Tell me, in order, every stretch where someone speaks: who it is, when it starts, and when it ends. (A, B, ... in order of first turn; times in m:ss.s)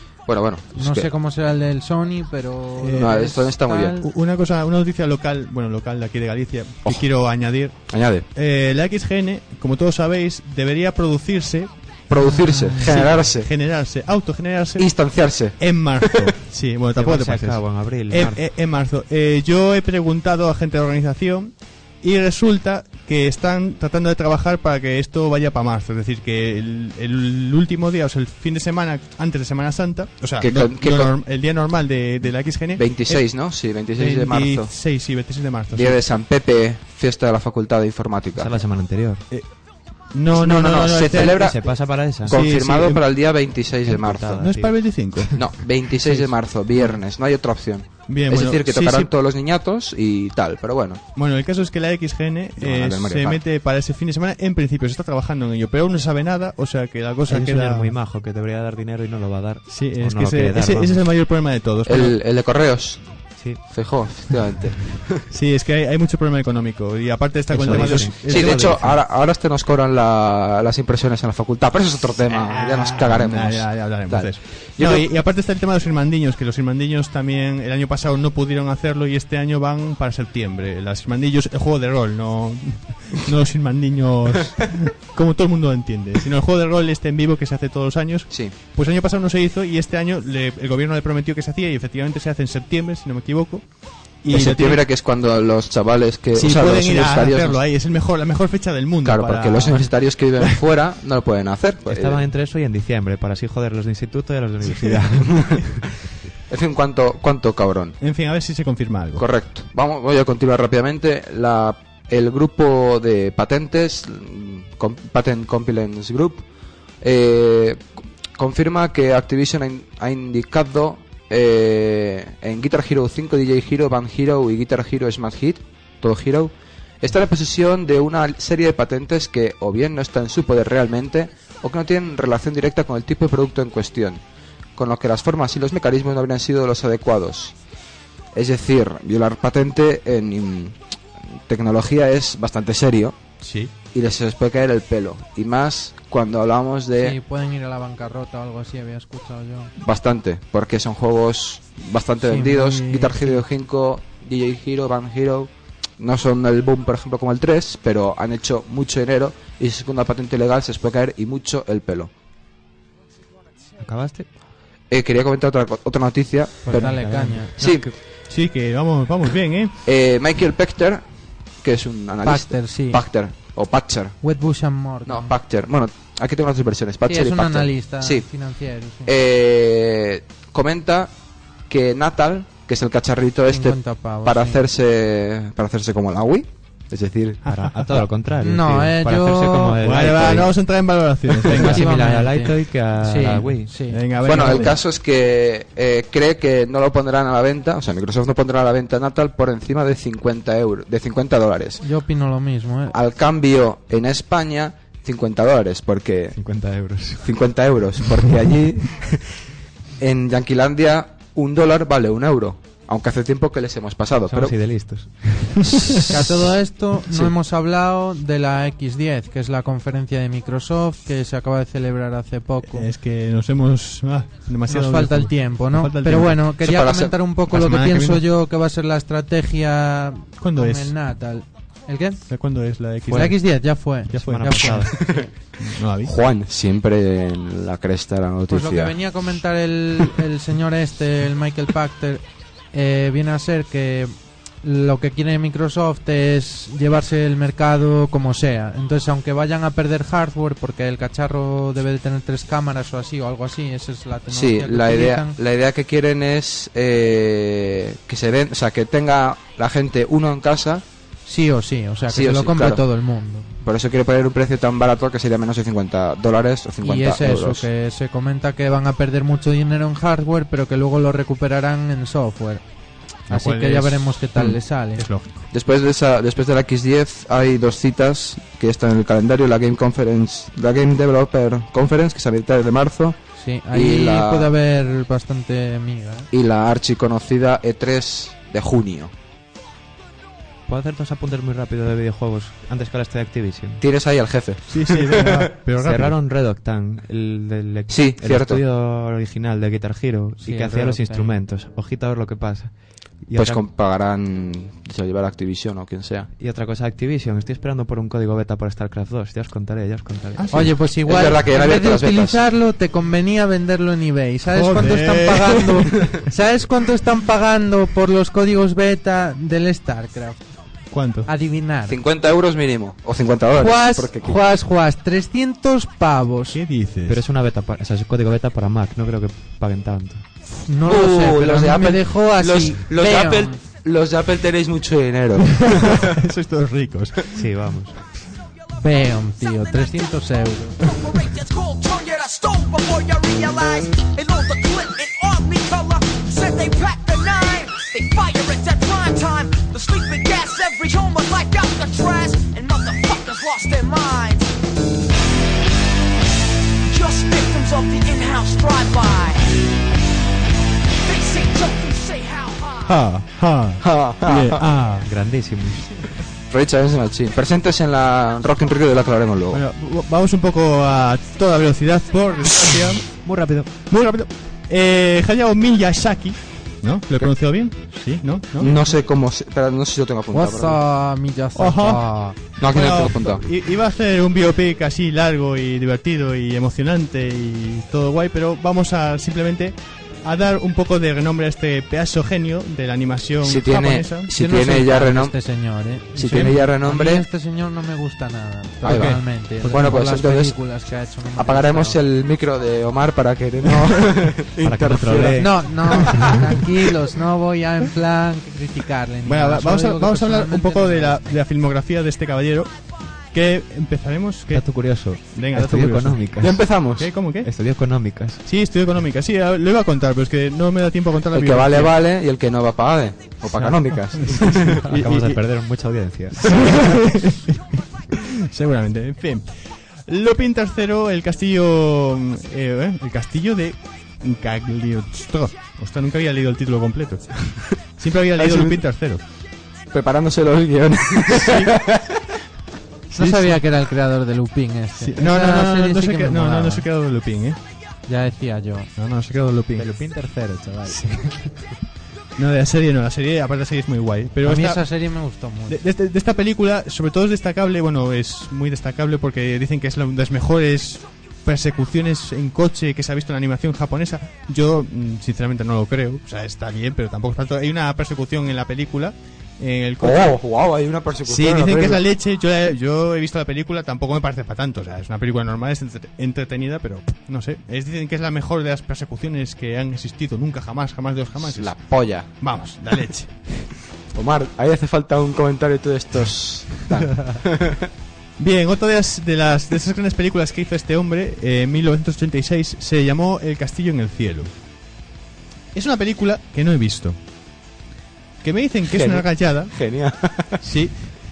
0:00.3-0:01.1 A
0:00.7-0:04.1 B
0:02.8-0:03.3 C
0:03.0-0:04.0 A
0:04.0-0:11.7 C
0:07.9-0:08.2 A
0:12.1-0:13.5 A
0:12.7-0:15.0 C
0:14.8-0:16.3 A
0:15.6-0:33.2 C
0:17.0-0:18.4 D
0:30.4-0:31.1 A
0:32.8-0:34.7 A
0:33.9-0:36.0 C
0:35.7-0:38.6 A
0:38.4-0:39.2 D
0:40.1-0:41.5 C
0:40.3-0:41.7 A
0:41.1-0:42.4 D
0:42.2-0:44.5 A
0:42.2-0:43.0 C
0:43.9-0:45.3 D
0:44.3-0:46.3 C
0:45.3-0:51.0 A
0:48.0-0:49.1 C
0:51.1-0:57.9 C
0:52.6-0:53.4 A
0:57.3-1:01.0 D
0:59.7-1:02.2 C
1:01.8-1:05.2 A
1:03.4-1:03.6 D
1:05.3-1:08.9 C
1:07.5-1:09.0 D
1:07.6-1:15.0 A
1:12.3-1:33.7 C
1:34.2-1:34.8 C
1:34.3-1:37.6 A
1:36.3-1:40.5 C
1:39.0-1:42.3 A
1:41.9-1:45.6 D
1:44.7-1:45.0 C
1:45.3-1:45.8 A
1:46.5-1:48.0 A
1:48.0-1:49.2 C
1:49.2-1:56.4 A
1:57.0-2:14.2 A
2:14.8-2:17.5 A
2:18.3-2:20.8 A
2:21.5-2:23.2 A
2:23.4-2:23.7 C
2:23.9-2:27.2 A
2:27.0-2:29.7 B
2:29.8-2:42.1 A
2:32.2-2:33.4 B
2:43.8-2:44.3 D
2:44.9-2:46.9 A
2:46.6-2:47.5 B
2:46.7-2:47.9 D
2:47.6-2:47.9 A
2:48.3-2:49.8 C
2:49.8-2:51.0 A
2:51.6-2:54.2 A
2:52.2-2:53.0 B
2:54.2-2:55.3 B
2:55.0-2:58.2 A
2:57.0-2:59.1 B
2:59.0-3:01.1 A
3:01.7-3:07.4 A
3:03.5-3:04.7 B
3:07.4-3:08.0 C
3:07.5-3:10.6 D
3:08.4-3:10.2 B
3:09.8-3:11.8 C
3:11.4-3:13.8 D
3:11.5-3:14.0 B
3:13.9-3:14.8 C
3:14.2-3:21.8 A
3:21.8-3:23.0 B
3:22.9-3:26.4 A
3:26.3-3:27.3 D
3:27.2-3:29.2 A
3:30.0-3:34.6 A
3:34.3-3:36.0 D
3:36.0-3:42.9 B
3:42.6-3:46.4 C
3:44.7-3:52.2 B
3:46.6-3:47.1 A
3:47.5-3:48.2 C
3:50.4-3:50.9 C
3:52.3-3:53.4 C
3:53.1-3:54.9 B
3:54.1-3:56.1 C
3:54.1-3:55.0 D
3:55.0-3:55.3 A
3:56.0-3:59.0 A
3:58.5-4:15.4 B
4:14.3-4:20.8 A
4:21.2-4:23.5 B
4:22.1-4:22.8 A
4:23.6-4:27.7 A
4:26.8-4:32.6 B
4:33.3-4:35.0 B
4:33.3-4:35.5 C
4:35.5-4:43.2 A
4:43.4-4:46.3 B
4:43.7-4:44.5 A
4:46.3-4:49.1 A
4:50.7-4:53.8 D
4:53.8-4:55.5 A
4:54.7-4:56.2 C
4:55.8-5:03.6 D
4:57.9-4:58.6 A
5:00.4-5:01.4 B
5:03.4-5:06.3 A
5:06.4-5:10.8 D
5:10.3-5:10.8 C
5:10.5-5:20.4 B
5:11.0-5:12.4 A
5:14.5-5:16.1 C
5:20.9-5:21.3 C
5:21.2-5:22.0 B
5:21.9-5:24.4 A
5:23.6-5:26.6 B
5:26.5-5:27.2 C
5:27.1-5:30.2 D
5:30.6-5:33.6 B
5:30.8-5:36.1 A
5:35.5-5:37.4 C
5:37.3-5:38.0 D
5:38.8-5:40.8 B
5:40.8-5:54.6 E
5:56.8-5:59.6 E
6:01.0-6:03.0 E
6:02.8-6:05.1 C
6:03.8-6:04.6 A
6:05.0-6:06.0 D
6:06.5-6:09.6 A
6:09.5-6:13.1 C
6:13.1-6:13.7 D
6:13.8-6:18.8 C
6:18.6-6:20.8 A
6:20.3-6:22.4 B
6:21.5-6:22.1 C
6:22.6-6:23.4 A
6:22.6-6:34.3 C
6:33.4-6:35.3 A
6:34.3-6:42.0 B
6:36.1-6:37.2 A
6:38.8-6:39.9 C
6:38.8-6:40.6 A
6:41.4-6:46.6 A
6:44.6-6:46.3 D
6:45.3-6:51.4 B
6:49.2-6:52.7 C
6:53.3-6:54.7 C
6:54.5-6:56.6 D
6:55.3-6:57.5 C
6:56.4-6:57.1 A
6:57.4-6:58.4 D
6:58.4-7:01.9 C
7:01.3-7:04.9 A
7:03.6-7:05.4 C
7:04.9-7:06.8 D
7:06.4-7:19.2 C
7:18.4-7:18.8 A
7:19.9-7:22.2 A
7:21.3-7:21.7 C
7:23.1-7:26.8 B
7:23.1-7:23.6 C
7:25.0-7:27.6 C
7:28.1-7:28.9 B
7:29.0-7:29.9 C
7:29.8-7:31.6 D
7:32.4-7:34.8 C
7:34.4-7:35.8 B
7:35.7-7:50.4 C
7:50.0-7:52.0 A
7:51.2-8:03.3 C
8:01.4-8:02.3 A
8:04.1-8:07.9 A
8:08.4-8:14.5 C
8:15.7-8:17.2 C
8:18.4-8:19.7 C
8:18.9-8:20.6 A
8:20.6-8:21.0 C